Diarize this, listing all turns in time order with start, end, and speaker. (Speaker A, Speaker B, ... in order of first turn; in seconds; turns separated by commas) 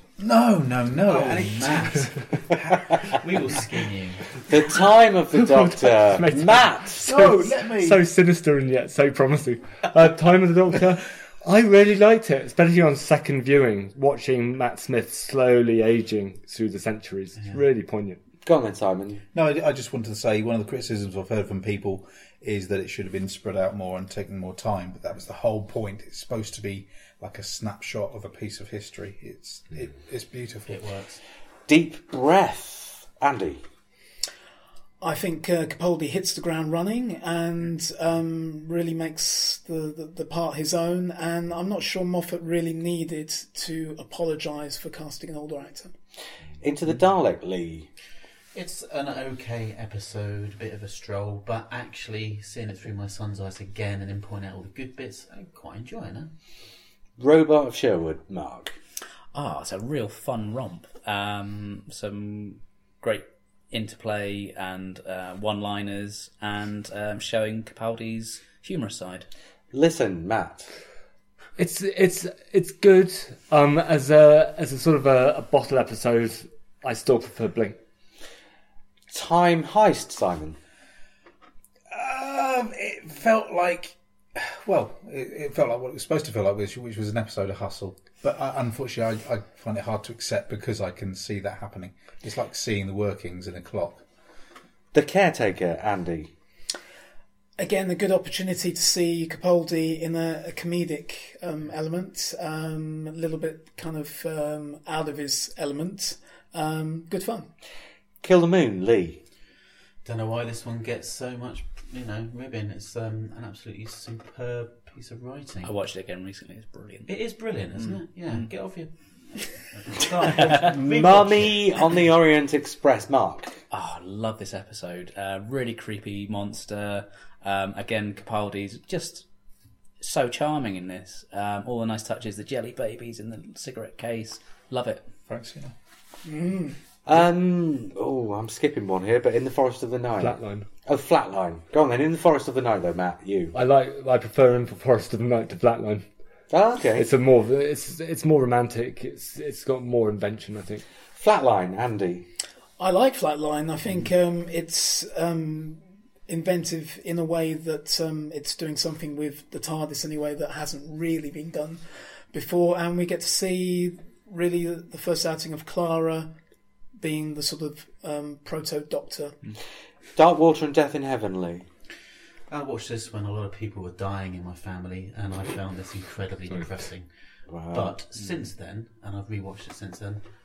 Speaker A: 0.2-3.2, Speaker B: 1.0-2.1, Speaker B: 3.1-4.2, Speaker C: 4.5-7.1, Speaker D: 5.4-18.2, Speaker A: 7.0-8.1, Speaker C: 18.4-19.2, Speaker A: 19.3-30.9, Speaker B: 30.7-31.2, Speaker C: 31.7-33.6, Speaker E: 35.0-45.9, Speaker C: 46.6-47.9, Speaker B: 48.5-56.3, Speaker C: 57.2-58.7, Speaker F: 59.3-69.3, Speaker C: 69.7-70.7, Speaker D: 71.6-77.8, Speaker C: 79.1-80.6, Speaker A: 81.9-94.0, Speaker C: 94.9-96.3, Speaker E: 97.6-107.5, Speaker C: 108.2-109.2, Speaker B: 110.0-115.7, Speaker F: 115.6-117.2, Speaker B: 117.1-121.9, Speaker F: 117.7-118.4, Speaker C: 120.5-123.5, Speaker F: 123.7-129.2, Speaker F: 130.0-135.1, Speaker A: 135.3-135.7, Speaker E: 136.2-136.7, Speaker C: 137.1-143.5, Speaker D: 140.2-140.6, Speaker D: 143.5-146.1, Speaker C: 146.5-147.1, Speaker D: 146.9-150.8, Speaker C: 151.2-152.2, Speaker E: 152.8-166.3, Speaker E: 167.0-169.3, Speaker C: 170.2-171.7, Speaker B: 172.5-177.1, Speaker C: 177.5-177.9, Speaker B: 177.7-180.2